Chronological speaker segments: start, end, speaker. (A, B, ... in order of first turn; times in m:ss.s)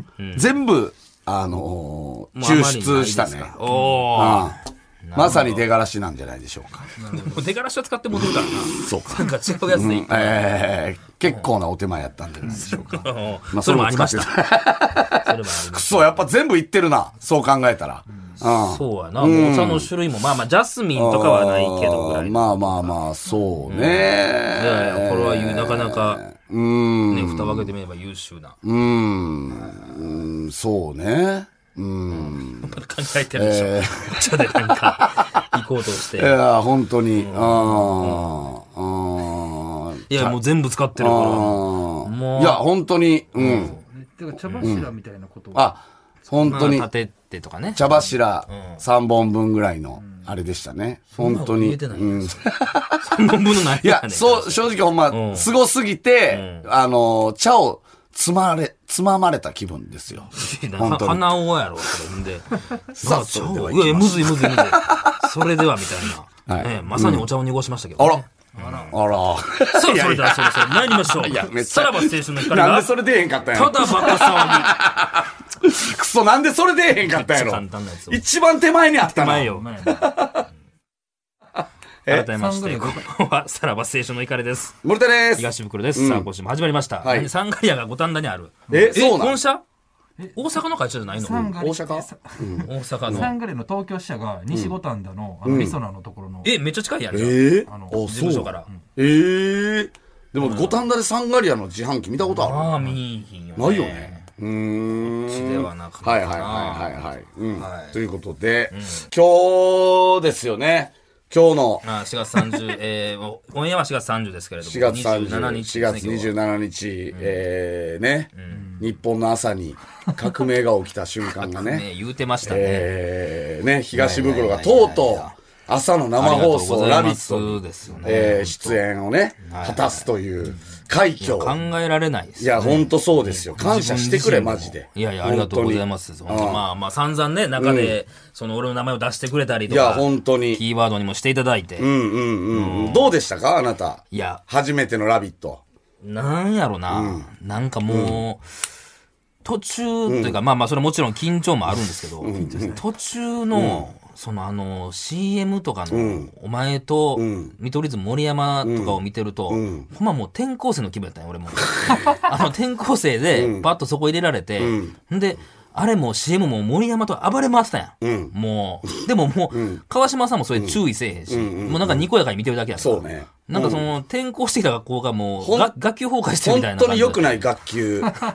0:00.2-0:00.5 A
0:00.4-0:03.6 B
0:02.4-0:05.7 A
0:03.7-0:04.0 C
0:04.1-0:04.6 B
0:05.2-0:06.9 B
0:07.0-0:07.4 C
0:07.1-0:10.7 A
0:08.2-0:19.9 B
0:12.4-0:14.4 A
0:12.5-0:12.8 C
0:15.2-0:16.3 A
0:18.4-0:23.0 A
0:20.9-0:27.7 B
0:23.7-0:26.2 A
0:27.1-0:28.6 A
0:28.6-0:32.7 B
0:32.1-0:36.4 A
0:33.4-0:35.4 B
0:36.1-0:40.4 B
0:37.2-0:38.4 A
0:40.1-0:42.6 A
0:41.0-0:43.8 B
0:43.4-0:43.8 A
0:43.4-0:45.8 C
0:44.4-0:44.8 A
0:44.6-0:44.9 B
0:45.5-0:46.9 B
0:46.4-0:48.8 A
0:47.8-0:53.1 B
0:50.0-0:50.3 C
0:51.2-0:55.5 A
0:53.7-1:01.4 B
0:56.3-0:56.7 A
1:00.4-1:09.0 A
1:02.9-1:05.3 B
1:06.5-1:07.3 B
1:08.0-1:08.2 B
1:08.6-1:09.0 C
1:08.9-1:20.4 B
1:09.6-1:14.8 A
1:17.0-1:18.2 A
1:19.0-1:19.7 A
1:19.3-1:20.1 C
1:22.1-1:24.8 A
1:22.4-1:23.0 C
1:24.8-1:26.3 B
1:25.4-1:29.6 A
1:27.0-1:27.3 B
1:28.7-1:29.0 C
1:28.7-1:29.4 B
1:30.2-1:30.4 C
1:30.4-1:31.5 A
1:31.1-1:36.5 C
1:31.6-1:33.3 B
1:32.6-1:33.3 A
1:35.4-1:35.8 B
1:36.4-1:38.7 A
1:37.1-1:42.9 B
1:37.7-1:38.1 C
1:40.4-1:40.8 A
1:42.3-1:44.3 A
1:43.6-1:51.8 B
1:45.1-1:47.0 A
1:47.6-1:48.0 A
1:48.7-1:49.1 A
1:51.8-1:56.3 A
1:54.6-2:01.9 B
1:57.1-1:57.4 A
1:58.4-1:58.8 A
2:01.4-2:02.9 A
2:02.4-2:11.6 B
2:03.9-2:05.4 A
2:06.2-2:08.8 A
2:09.4-2:10.1 A
2:11.2-2:21.9 A
2:12.4-2:16.6 B
2:17.6-2:18.0 B
2:19.7-2:20.6 B
2:21.8-2:25.6 B
2:22.5-2:23.2 A
2:24.1-2:24.4 A
2:26.0-2:28.4 A
2:26.9-2:27.3 B
2:27.9-2:28.2 B
2:29.4-2:57.4 A
2:30.1-2:30.4 B
2:32.2-2:32.8 B
2:32.4-2:32.8 C
2:33.5-2:33.9 B
2:35.9-2:36.3 B
2:37.2-2:37.5 B
2:38.6-2:39.9 B
2:43.3-2:43.7 B
2:44.6-2:44.9 B
2:48.0-2:48.3 B
2:49.5-2:49.8 B
2:51.3-2:52.0 B
2:52.8-2:53.9 B
2:55.4-2:55.7 B
2:56.4-2:58.1 B